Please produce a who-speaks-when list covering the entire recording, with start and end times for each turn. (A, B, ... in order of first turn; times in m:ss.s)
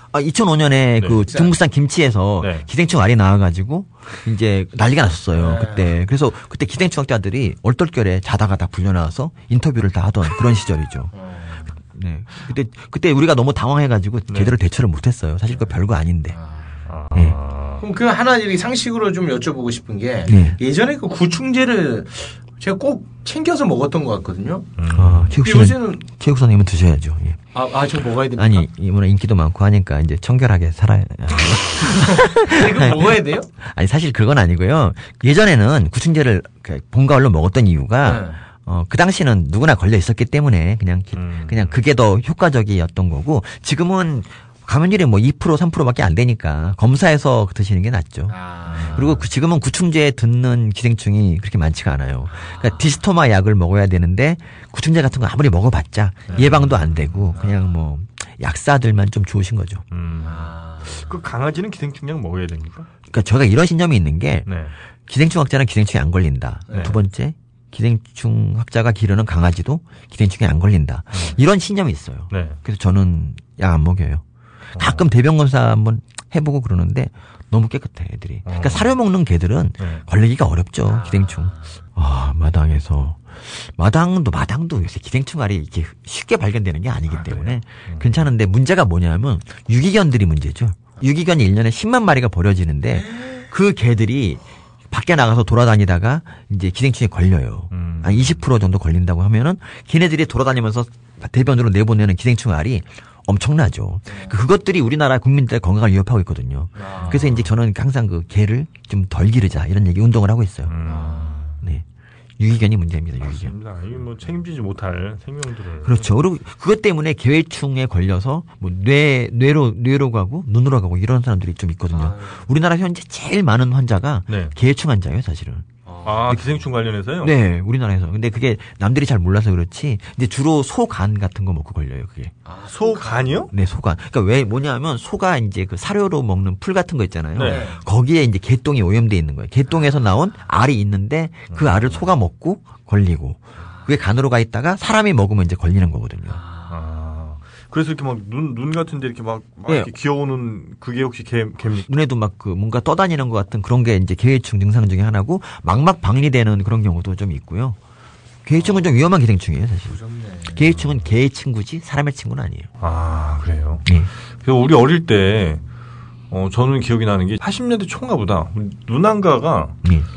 0:00.1-0:11.1 A
0:01.2-0:01.5 B
0:02.4-0:02.6 C
0:05.3-0:06.0 B
0:11.1-0:11.7 B
0:11.8-0:16.4 A
0:16.3-0:16.7 B
0:16.9-0:17.8 C
0:17.8-0:24.7 B
0:20.3-0:20.6 A
0:24.8-0:25.3 C
0:24.9-0:27.4 A
0:25.3-0:26.0 B
0:27.5-0:28.7 B
0:28.4-0:48.4 A
0:31.8-0:33.5 B
0:38.0-0:38.4 B
0:41.1-0:41.8 C
0:48.3-0:49.2 B
0:48.9-0:59.8 A
0:52.4-0:52.9 B
0:56.3-0:56.5 B
0:56.3-0:57.0 C
0:57.3-0:57.7 B
0:59.9-1:02.9 C
1:00.2-1:01.1 B
1:03.1-1:04.5 A
1:04.4-1:04.7 C
1:05.1-1:14.2 A
1:06.7-1:07.0 C
1:12.3-1:12.6 C
1:14.8-1:15.0 C
1:14.8-1:50.8 A
1:18.4-1:18.9 C
1:20.9-1:21.7 B
1:27.1-1:28.3 C
1:32.9-1:33.4 B
1:37.7-1:38.4 C
1:44.1-1:44.3 B
1:46.8-1:47.4 B
1:47.0-1:47.4 C
1:50.6-1:51.4 C
1:50.8-1:51.6 B
1:52.4-1:53.5 A
1:53.2-1:56.0 C
1:55.8-2:05.7 A
2:01.9-2:02.4 B
2:05.8-2:06.3 B
2:06.0-2:07.3 C
2:06.3-2:06.6 A
2:07.2-2:12.3 A
2:12.4-2:13.4 B
2:12.7-2:13.5 C
2:13.5-2:26.4 A
2:17.3-2:17.6 C
2:17.4-2:17.8 B
2:21.5-2:22.0 C
2:23.6-2:23.9 B
2:26.3-2:26.7 B
2:26.7-2:31.9 C
2:31.8-2:37.8 A
2:38.4-2:40.0 A
2:38.6-2:38.8 B
2:39.9-2:40.8 B
2:40.5-2:42.7 A
2:42.8-2:43.8 C
2:43.8-2:44.1 A
2:44.4-2:45.6 C
2:46.3-2:49.8 C